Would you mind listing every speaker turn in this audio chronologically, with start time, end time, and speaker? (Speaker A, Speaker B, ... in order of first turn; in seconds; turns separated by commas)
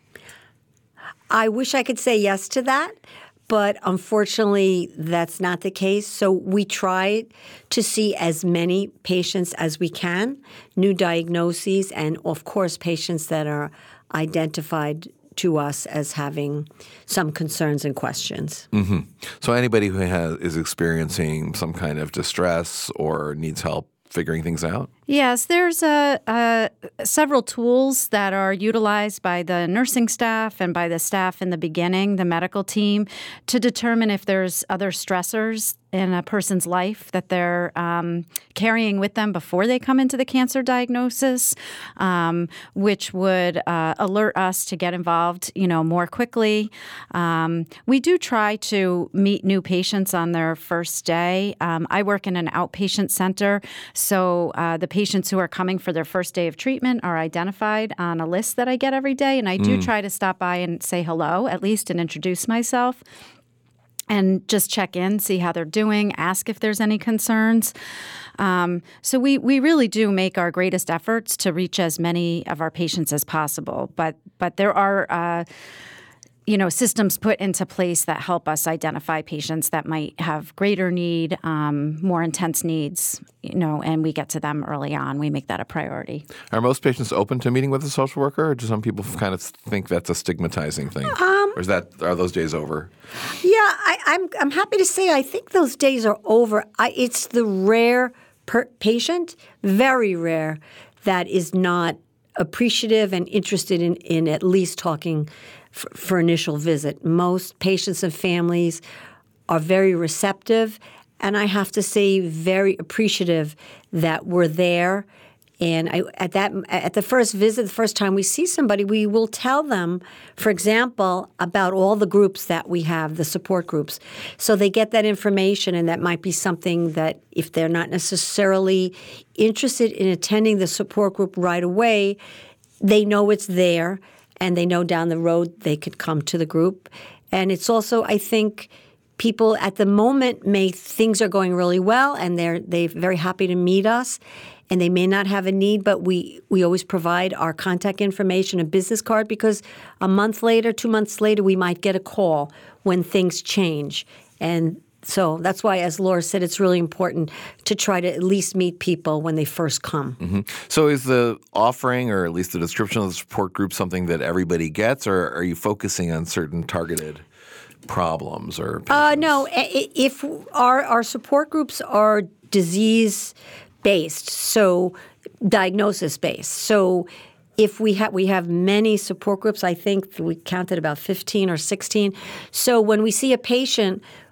Speaker A: 1.3-18.7, Speaker B: 18.7-24.9, Speaker C: 25.1-63.0, Speaker B: 59.6-59.9, Speaker C: 64.1-67.7, Speaker C: 68.4-75.5, Speaker C: 76.5-86.3, Speaker B: 86.5-92.9, Speaker A: 91.1-91.6, Speaker A: 93.4-108.8, Speaker A: 109.5-115.1, Speaker A: 115.6-132.2, Speaker A: 132.8-160.2, Speaker B: 160.2-167.2, Speaker B: 167.9-169.5, Speaker A: 168.9-184.0